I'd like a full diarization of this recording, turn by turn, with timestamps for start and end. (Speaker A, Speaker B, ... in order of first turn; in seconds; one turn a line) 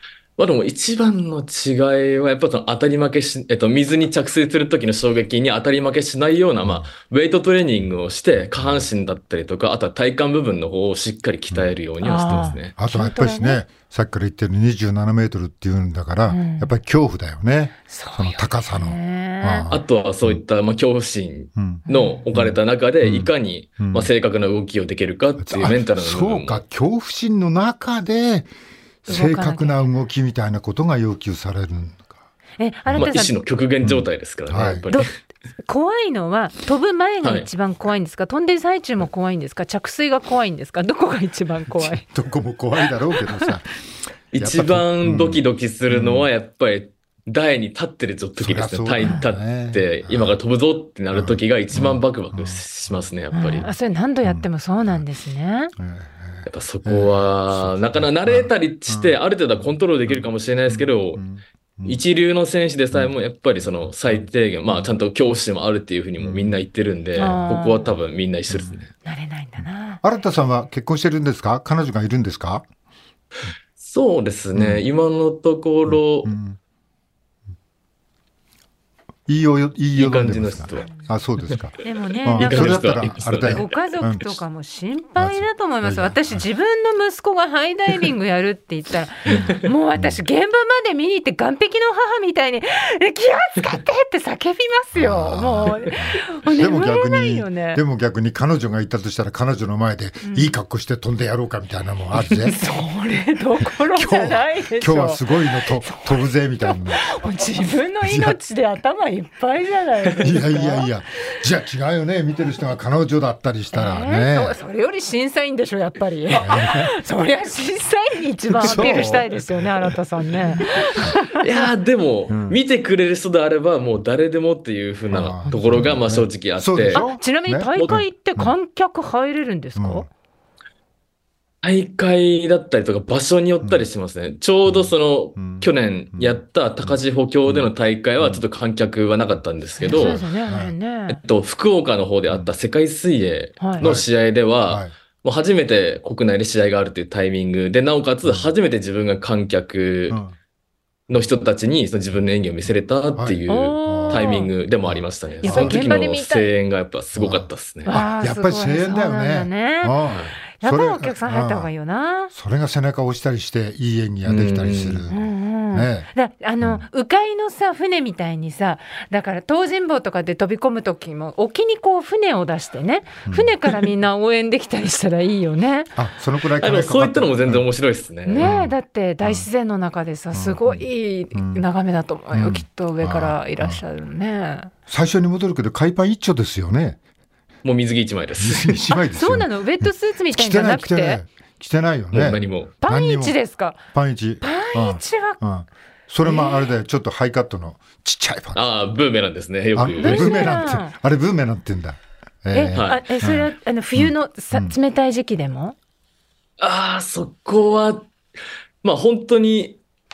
Speaker A: 0.4-12.7
Speaker B: 6.6-6.9
Speaker B: 8.5-8.8
Speaker C: 12.0-13.6
Speaker B: 12.3-20.4
Speaker C: 16.3-16.7
Speaker C: 17.9-19.7
Speaker A: 19.7-26.6
Speaker B: 21.6-24.1
Speaker C: 21.9-22.2
Speaker B: 25.4-28.5
Speaker B: 29.0-32.1
Speaker C: 29.1-29.9
Speaker C: 32.6-33.4
Speaker B: 32.9-33.1
Speaker A: 33.0-35.0
Speaker B: 33.8-34.9
Speaker C: 35.6-42.0
Speaker A: 37.2-37.5
Speaker B: 41.8-43.7
Speaker C: 43.2-43.5
Speaker A: 44.3-53.7
Speaker B: 44.4-46.3
Speaker B: 48.4-50.4
Speaker B: 51.1-52.9
Speaker C: 53.3-55.7
Speaker B: 54.2-55.0
Speaker B: 55.8-62.0
Speaker A: 56.5-61.2
Speaker A: 61.8-68.9
Speaker B: 64.1-64.9
Speaker B: 66.2-66.6
Speaker C: 67.2-68.0
Speaker B: 68.5-68.8
Speaker C: 69.0-70.0
Speaker B: 70.0-72.6
Speaker A: 73.8-76.3
Speaker B: 74.5-74.8
Speaker B: 75.9-76.6
Speaker B: 79.3-84.4
Speaker A: 79.9-80.9
Speaker C: 81.8-97.8
Speaker A: 82.3-83.6
Speaker B: 85.2-86.4
Speaker B: 89.3-90.2
Speaker A: 89.3-89.5
Speaker B: 94.9-102.6
Speaker C: 100.2-100.5
Speaker C: 102.4-110.9
Speaker B: 103.8-107.1
Speaker B: 108.0-108.4
Speaker B: 110.2-114.6
Speaker C: 113.7-121.7
Speaker B: 116.4-116.9
Speaker B: 118.6-119.3
Speaker A: 118.6-119.2
Speaker A: 121.3-127.0
Speaker B: 122.3-122.6
Speaker B: 125.1-128.5
Speaker C: 125.5-125.9
Speaker C: 126.9-130.1
Speaker B: 129.8-130.1
Speaker A: 131.6-140.2
Speaker B: 134.7-138.4
Speaker C: 139.8-141.2
Speaker B: 139.9-140.7
Speaker A: 141.1-150.2
Speaker B: 142.3-142.5
Speaker C: 143.6-143.8
Speaker B: 143.8-144.1
Speaker B: 144.7-144.9
Speaker B: 148.2-148.5
Speaker B: 150.1-150.3
Speaker A: 151.1-158.0
Speaker B: 153.2-154.3
Speaker C: 153.5-154.5
Speaker B: 154.8-155.8
Speaker C: 155.4-156.5
Speaker B: 157.2-161.7
Speaker C: 157.9-160.0
Speaker C: 160.6-162.3
Speaker B: 162.3-166.1
Speaker A: 164.2-165.1
Speaker C: 165.1-175.9
Speaker B: 173.3-173.5
Speaker B: 175.9-177.7
Speaker A: 176.6-178.5
Speaker C: 178.2-184.7
Speaker B: 178.4-179.4
Speaker B: 180.3-181.6
Speaker B: 182.3-183.8
Speaker B: 184.9-187.0
Speaker A: 187.6-188.8
Speaker B: 188.4-193.4
Speaker C: 189.1-191.2
Speaker A: 192.1-192.7
Speaker C: 192.8-193.8
Speaker B: 193.9-198.6
Speaker C: 194.4-195.4
Speaker C: 196.2-196.7
Speaker A: 198.5-200.6
Speaker B: 199.7-204.8
Speaker C: 200.0-200.9
Speaker C: 202.5-205.8
Speaker A: 202.7-203.1
Speaker A: 206.6-208.1
Speaker A: 208.8-209.8